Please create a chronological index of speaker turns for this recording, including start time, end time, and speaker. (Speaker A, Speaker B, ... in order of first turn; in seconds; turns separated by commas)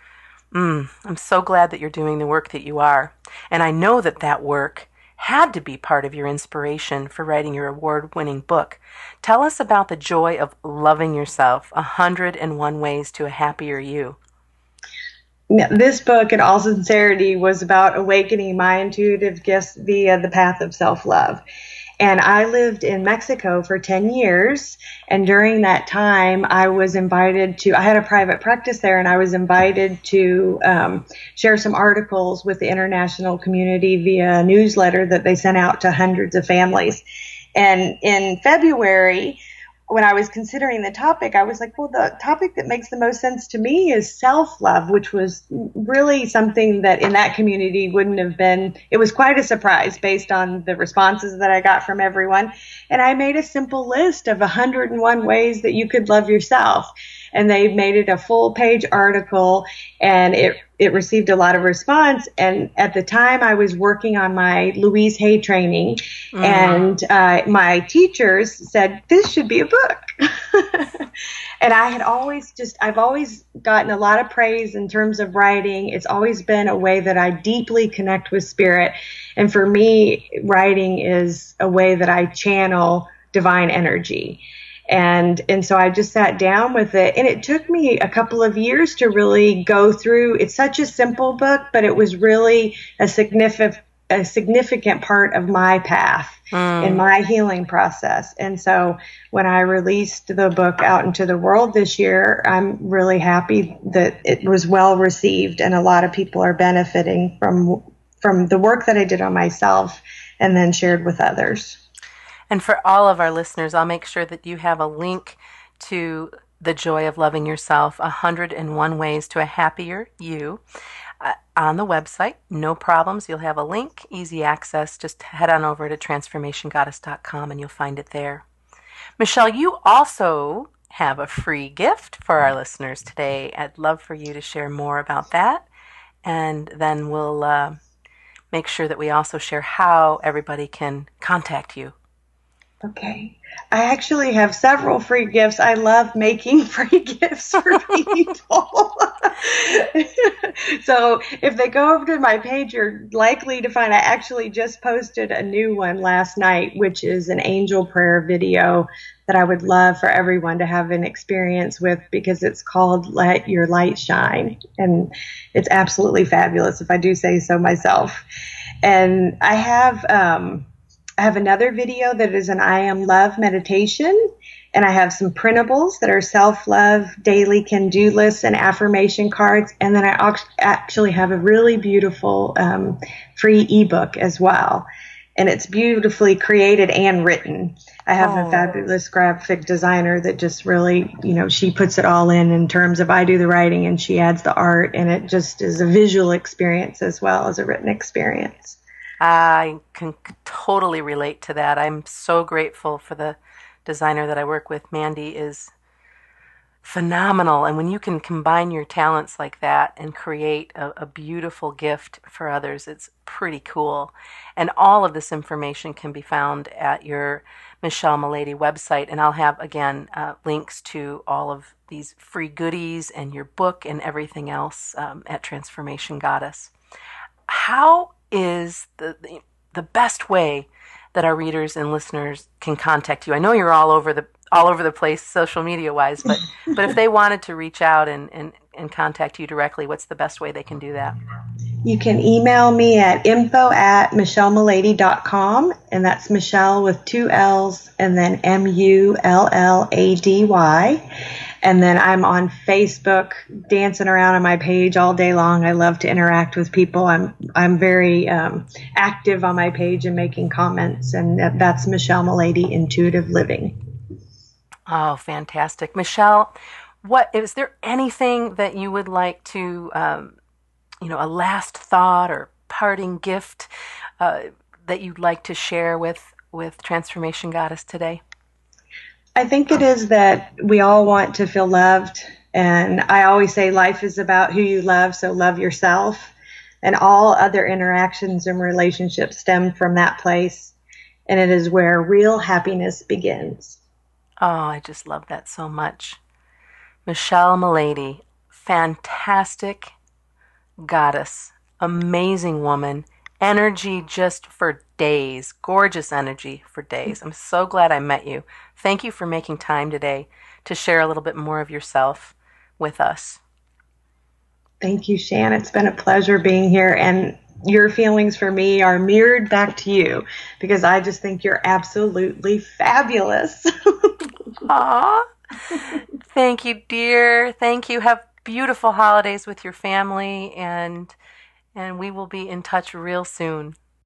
Speaker A: 0.5-14.2, Speaker B: 15.5-21.4, Speaker B: 22.0-37.0, Speaker B: 37.5-39.4, Speaker B: 39.9-71.1, Speaker A: 66.3-66.9, Speaker B: 71.6-111.8, Speaker A: 96.5-97.0, Speaker A: 112.5-120.6, Speaker A: 121.2-128.4, Speaker A: 129.2-135.7, Speaker A: 136.2-137.8, Speaker A: 138.5-141.9, Speaker B: 142.8-168.2, Speaker B: 168.8-170.7, Speaker B: 171.2-174.2, Speaker B: 174.7-198.8, Speaker A: 188.2-188.7, Speaker A: 199.2-205.7, Speaker A: 206.8-226.7, Speaker A: 227.5-241.1, Speaker B: 241.8-251.0, Speaker B: 251.6-263.7, Speaker A: 264.9-270.4, Speaker A: 271.0-273.7, Speaker A: 274.2-278.2, Speaker B: 279.4-290.7, Speaker B: 291.3-293.8, Speaker A: 294.4-296.2, Speaker A: 297.1-299.9, Speaker A: 300.8-313.4, Speaker B: 314.8-324.1, Speaker A: 324.6-331.1, Speaker A: 331.7-333.8